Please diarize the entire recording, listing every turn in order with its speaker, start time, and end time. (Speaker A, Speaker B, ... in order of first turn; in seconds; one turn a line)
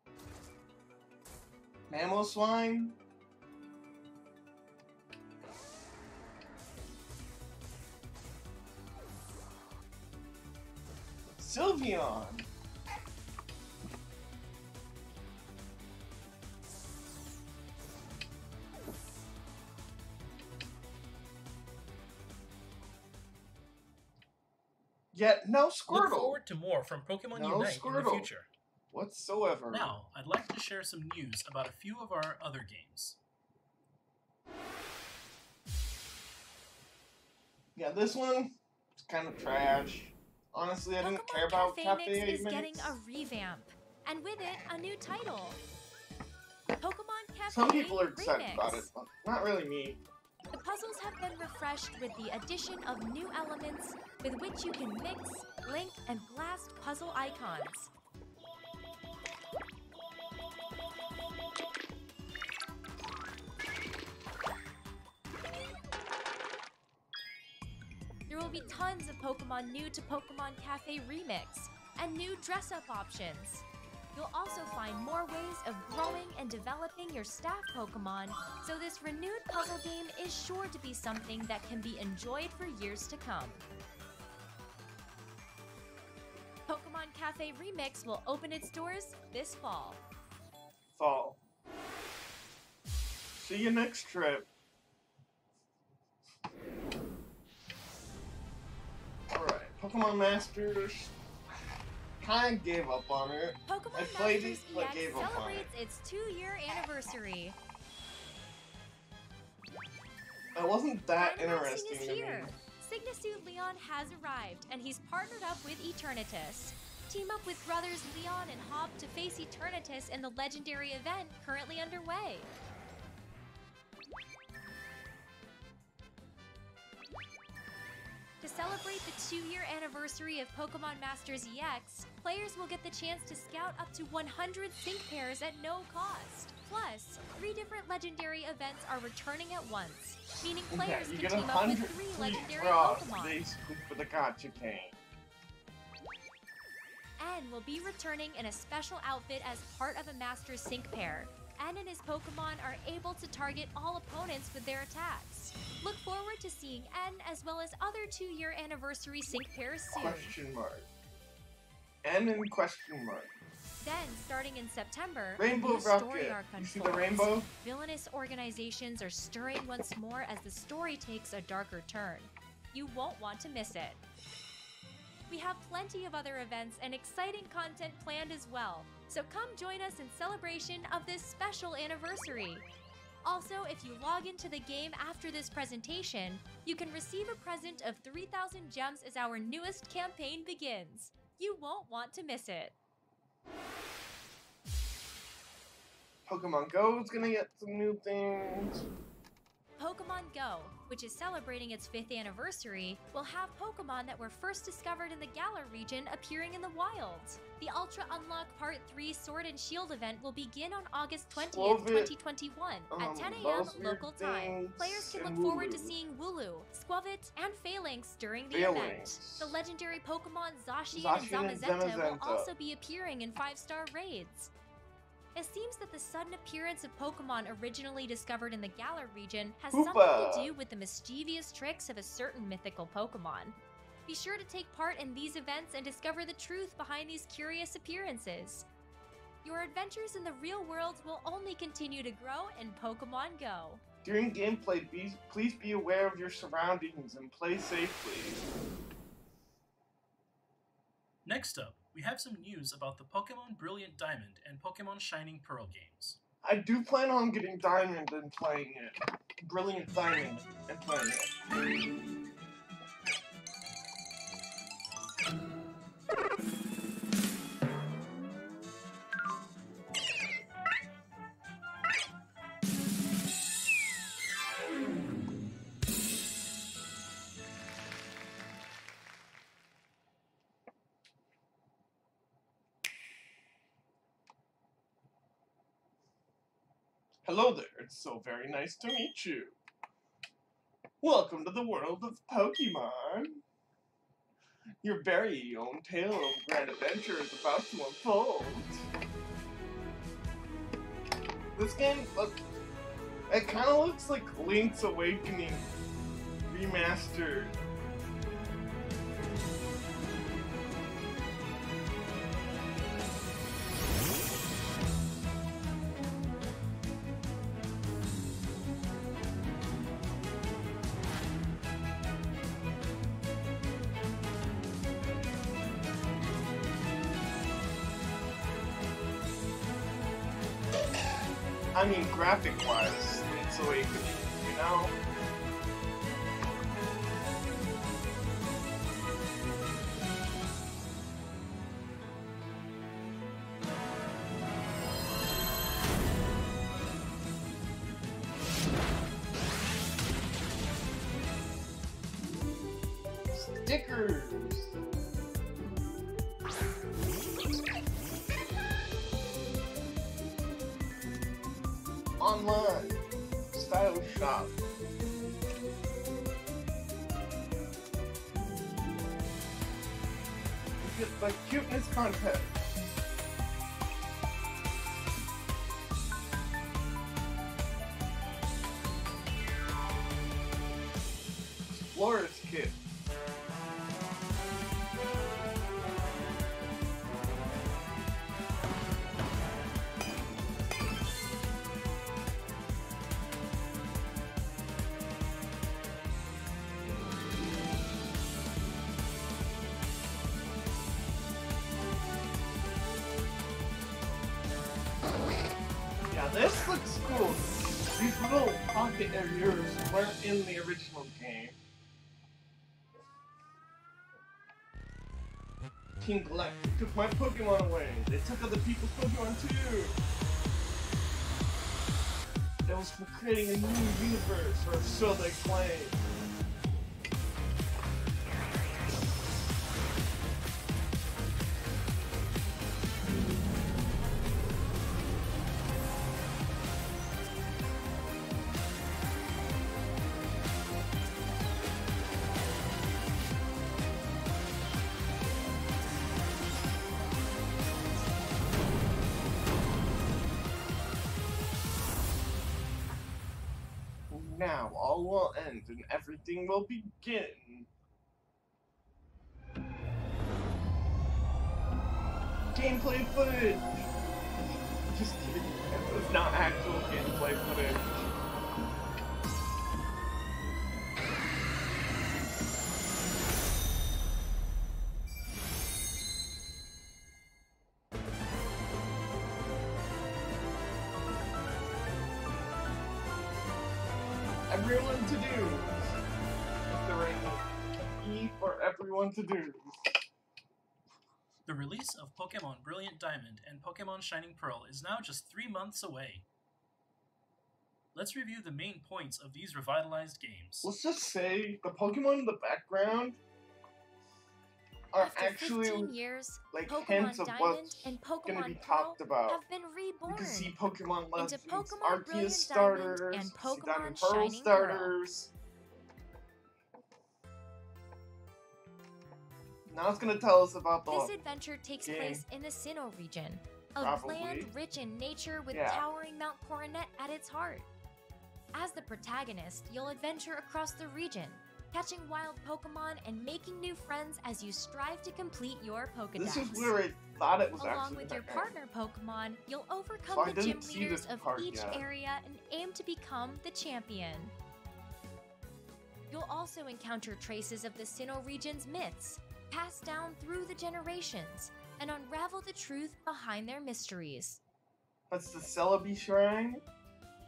Speaker A: 1.9-3.0
Speaker A: 11.3-12.5
Speaker A: 25.1-26.4
Speaker B: 25.9-28.5
Speaker A: 27.3-28.3
Speaker A: 28.9-30.0
Speaker B: 29.7-33.2
Speaker A: 37.8-43.0
Speaker C: 41.0-45.6
Speaker C: 46.8-48.9
Speaker A: 47.5-50.0
Speaker C: 50.5-57.9
Speaker C: 68.3-83.6
Speaker C: 86.7-90.0
Speaker A: 91.0-91.4
Speaker A: 93.3-94.5
Speaker A: 99.3-101.1
Speaker A: 102.2-105.7
Speaker C: 103.7-107.5
Speaker A: 110.5-112.5
Speaker C: 111.2-122.5
Speaker C: 128.4-143.4
Speaker A: 140.7-145.0
Speaker C: 147.2-160.3
Speaker A: 159.9-160.9
Speaker A: 162.0-163.3
Speaker C: 163.8-174.0
Speaker A: 165.4-167.5
Speaker C: 175.3-182.7
Speaker C: 183.2-192.8
Speaker A: 196.3-198.8
Speaker C: 199.8-224.5
Speaker A: 211.3-212.1
Speaker A: 212.9-215.9
Speaker A: 218.5-219.5
Speaker A: 220.9-222.5
Speaker C: 225.3-238.7
Speaker A: 229.7-230.5
Speaker C: 239.4-243.8
Speaker A: 244.0-248.4
Speaker B: 251.2-256.2
Speaker A: 256.4-261.3
Speaker A: 287.2-289.6
Speaker A: 291.0-293.4
Speaker A: 294.8-298.8
Speaker A: 301.5-302.4
Speaker A: 303.3-305.7
Speaker A: 306.5-307.5
Speaker A: 331.7-334.9
Speaker A: 353.3-354.7
Speaker A: 362.2-364.6
Speaker A: 370.8-372.6
Speaker A: 381.7-382.8
Speaker A: 406.1-411.6
Speaker A: 416.0-420.0
Speaker A: 422.6-426.0
Speaker A: 454.1-457.7
Speaker A: 462.5-463.9
Speaker A: 464.9-467.9
Speaker A: 484.5-486.0
Speaker A: 486.7-487.4
Speaker A: 488.0-490.0
Speaker B: 491.4-496.2
Speaker B: 497.9-500.7
Speaker A: 500.6-503.2
Speaker A: 504.9-505.9
Speaker C: 505.0-510.5
Speaker A: 506.5-509.4
Speaker A: 510.1-515.3
Speaker C: 511.1-514.9
Speaker A: 519.7-521.1
Speaker C: 520.9-527.7
Speaker A: 521.8-522.2
Speaker A: 523.8-524.5
Speaker A: 525.5-525.8
Speaker C: 528.5-536.7
Speaker A: 536.1-538.5
Speaker C: 537.6-544.3
Speaker A: 540.1-541.8
Speaker C: 546.1-554.4
Speaker A: 555.1-556.6